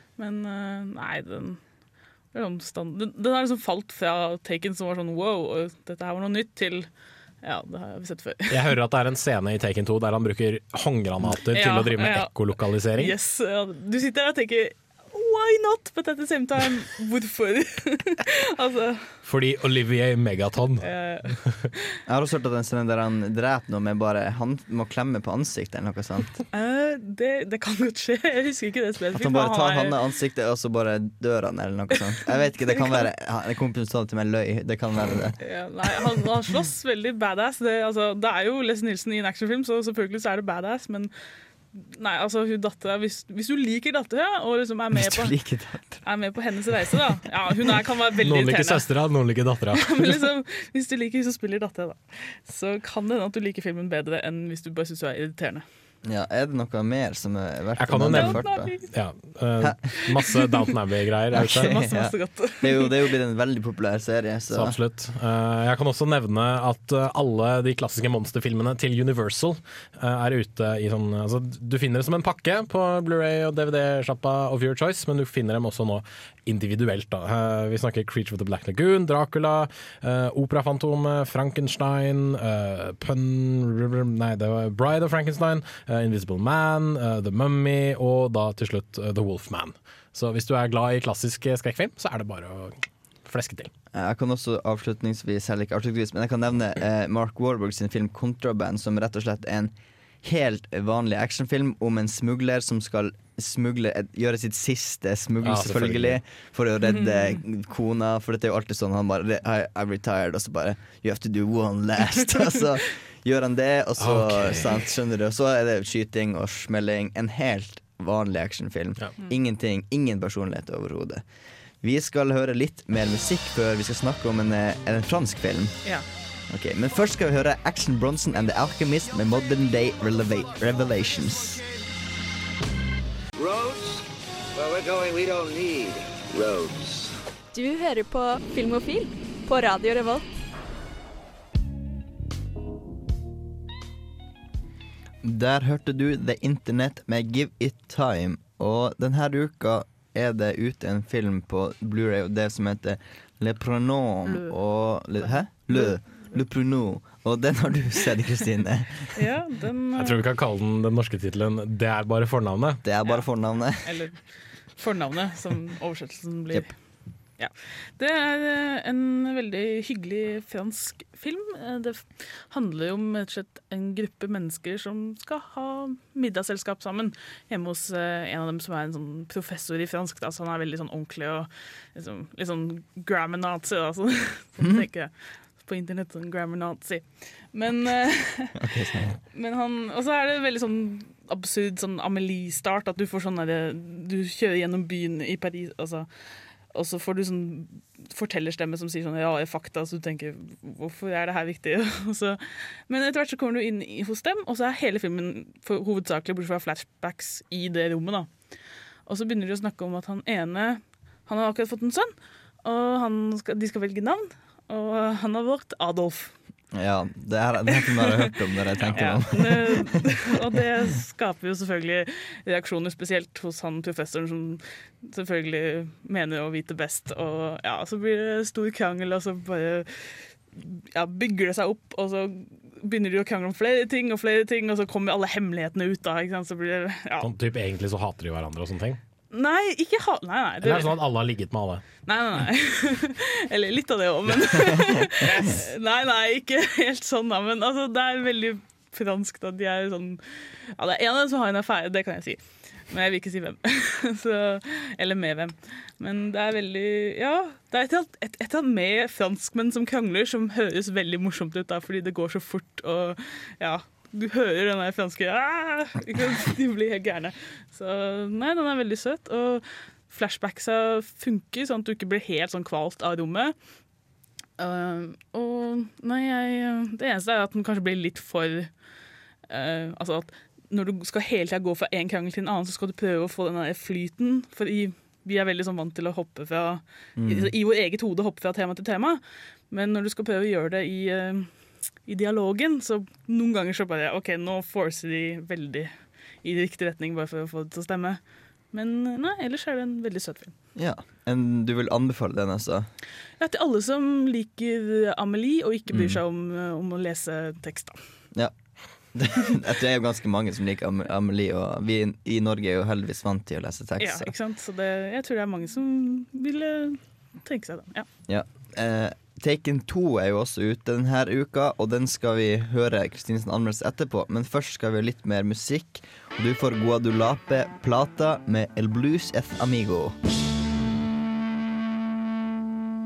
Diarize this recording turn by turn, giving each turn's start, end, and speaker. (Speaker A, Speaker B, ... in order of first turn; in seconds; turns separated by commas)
Speaker A: 0.2-1.6, Speaker A: 2.3-6.9, Speaker A: 7.4-8.7, Speaker B: 8.5-13.1, Speaker A: 11.5-12.4, Speaker A: 12.9-19.1, Speaker B: 19.2-20.9, Speaker A: 20.8-21.4, Speaker C: 22.1-26.4, Speaker A: 26.5-30.0, Speaker C: 29.1-35.4, Speaker A: 32.3-33.1, Speaker A: 35.4-41.1, Speaker A: 41.7-45.4, Speaker C: 44.9-46.0, Speaker A: 46.0-48.9, Speaker B: 48.2-50.2, Speaker A: 49.8-55.6, Speaker C: 56.0-58.7, Speaker B: 57.8-61.7, Speaker A: 58.1-58.9, Speaker C: 61.3-64.7, Speaker A: 61.5-63.0, Speaker B: 64.5-93.7, Speaker C: 93.9-99.7, Speaker C: 100.2-121.2, Speaker B: 105.4-106.2, Speaker A: 106.9-107.4, Speaker B: 114.0-114.7, Speaker C: 121.8-125.8, Speaker C: 126.5-131.6, Speaker D: 133.4-137.1, Speaker E: 137.5-140.2, Speaker C: 145.2-159.2, Speaker A: 154.2-154.6, Speaker A: 155.2-156.4, Speaker A: 159.1-160.2, Speaker B: 160.0-162.8, Speaker C: 162.8-163.9, Speaker A: 163.8-164.2, Speaker A: 164.8-166.8, Speaker A: 167.4-188.6, Speaker C: 188.6-189.2, Speaker A: 189.3-196.1, Speaker A: 196.7-208.3, Speaker A: 209.1-212.1, Speaker A: 212.6-216.3, Speaker C: 216.7-220.0, Speaker A: 217.8-218.2, Speaker A: 218.9-237.3, Speaker B: 237.2-239.0, Speaker A: 239.3-240.9, Speaker B: 240.6-241.8, Speaker A: 242.1-250.2, Speaker A: 250.8-273.5, Speaker A: 274.6-278.7, Speaker A: 279.5-289.2, Speaker C: 287.2-287.5, Speaker A: 289.7-291.5, Speaker A: 292.0-295.9, Speaker A: 296.4-298.2, Speaker A: 298.7-300.5, Speaker C: 300.8-302.9, Speaker A: 303.4-308.0, Speaker C: 309.1-314.3, Speaker A: 314.0-318.1, Speaker C: 318.3-330.1